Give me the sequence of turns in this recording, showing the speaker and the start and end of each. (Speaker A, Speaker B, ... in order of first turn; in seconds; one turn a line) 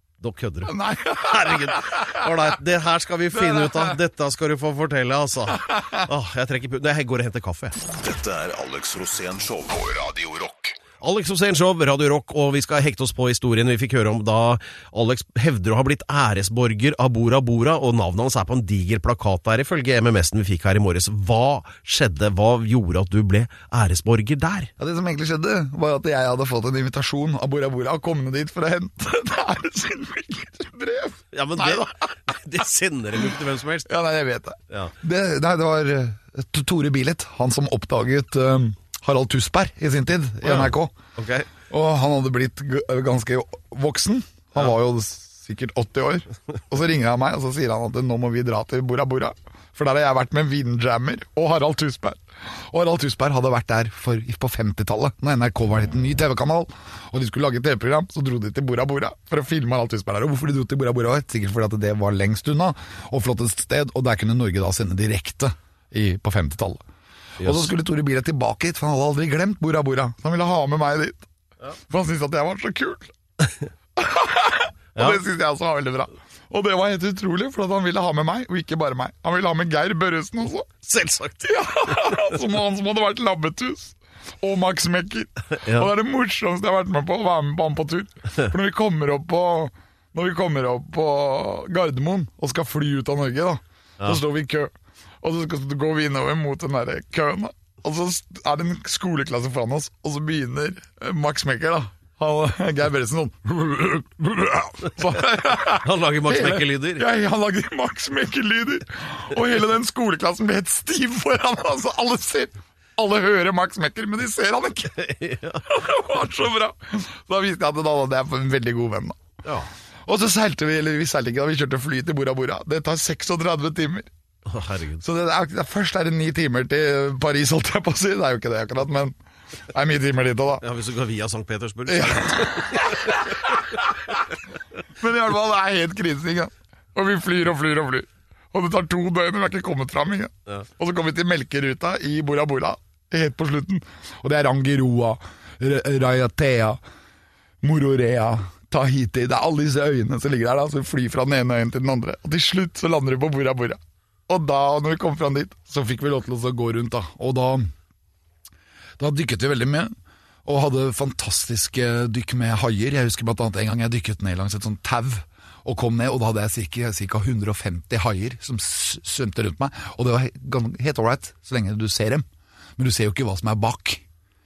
Speaker A: 0.2-7.8
Speaker B: 0.7-2.3
Speaker B: 3.3-4.0
Speaker B: 5.7-6.0
Speaker C: 8.0-10.8
Speaker A: 11.0-24.7
Speaker B: 24.8-32.1
Speaker A: 31.3-33.9
Speaker B: 33.9-41.0
Speaker A: 40.4-41.5
Speaker B: 41.7-66.8
Speaker A: 67.4-67.7
Speaker B: 67.4-71.3
Speaker B: 71.9-73.1
Speaker B: 74.0-80.7
Speaker A: 80.8-81.5
Speaker B: 81.4-115.0
Speaker A: 105.7-107.1
Speaker A: 115.0-115.6
Speaker B: 115.7-119.2
Speaker B: 120.1-124.1
Speaker A: 124.5-125.0
Speaker B: 125.0-129.2
Speaker B: 129.7-130.6
Speaker A: 130.6-133.2
Speaker B: 131.9-133.6
Speaker B: 135.0-146.8
Speaker B: 147.6-157.7
Speaker B: 159.0-172.3
Speaker B: 172.8-174.0